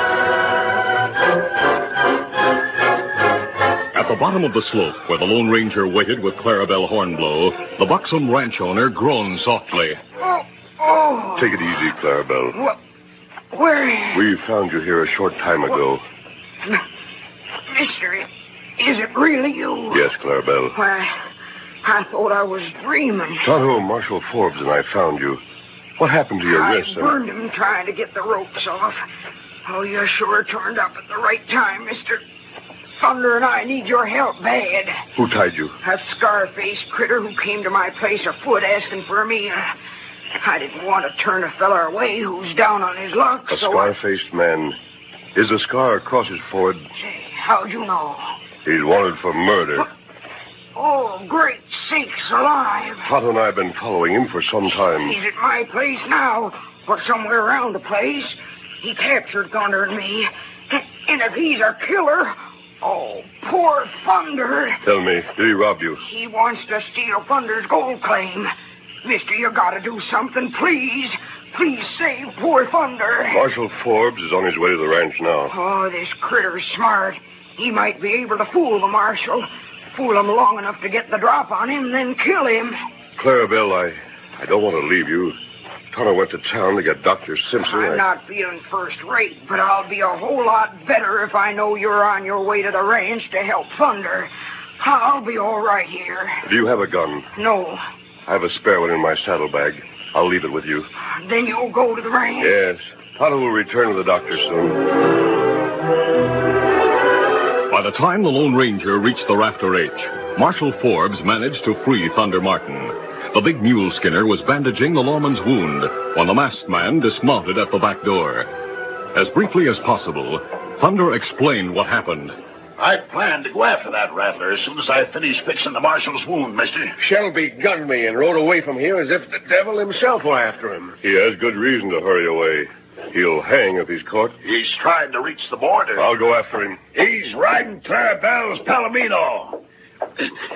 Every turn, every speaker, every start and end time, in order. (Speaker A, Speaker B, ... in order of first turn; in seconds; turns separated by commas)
Speaker A: 3.9-10.0, Speaker B: 10.2-11.6, Speaker C: 11.4-12.6, Speaker B: 13.5-14.2, Speaker C: 14.1-16.0, Speaker B: 17.7-18.3, Speaker B: 18.8-20.1, Speaker C: 19.9-20.8, Speaker B: 20.7-21.1, Speaker B: 21.8-23.5, Speaker C: 23.4-25.4, Speaker C: 26.0-27.2, Speaker B: 26.4-29.0, Speaker B: 29.7-32.2, Speaker B: 33.0-34.9, Speaker C: 35.2-35.8, Speaker B: 35.8-39.7, Speaker B: 40.4-43.9, Speaker C: 43.5-44.8, Speaker C: 45.4-46.8, Speaker B: 47.0-48.2, Speaker C: 48.6-49.9, Speaker B: 50.8-53.1, Speaker C: 53.0-55.2, Speaker B: 55.0-64.8, Speaker C: 64.8-66.0, Speaker B: 66.0-68.5, Speaker B: 69.0-73.4, Speaker C: 73.3-75.5, Speaker B: 75.5-82.8, Speaker C: 83.2-85.4, Speaker C: 85.9-88.0, Speaker B: 87.6-96.4, Speaker C: 96.4-97.3, Speaker B: 97.4-97.8, Speaker C: 98.3-100.9, Speaker B: 101.2-102.5, Speaker C: 102.4-104.9, Speaker A: 107.7-118.5, Speaker A: 119.1-122.3, Speaker D: 122.8-127.0, Speaker E: 127.0-131.0, Speaker C: 131.0-134.3, Speaker D: 134.4-136.1, Speaker C: 135.9-136.8, Speaker D: 136.9-139.6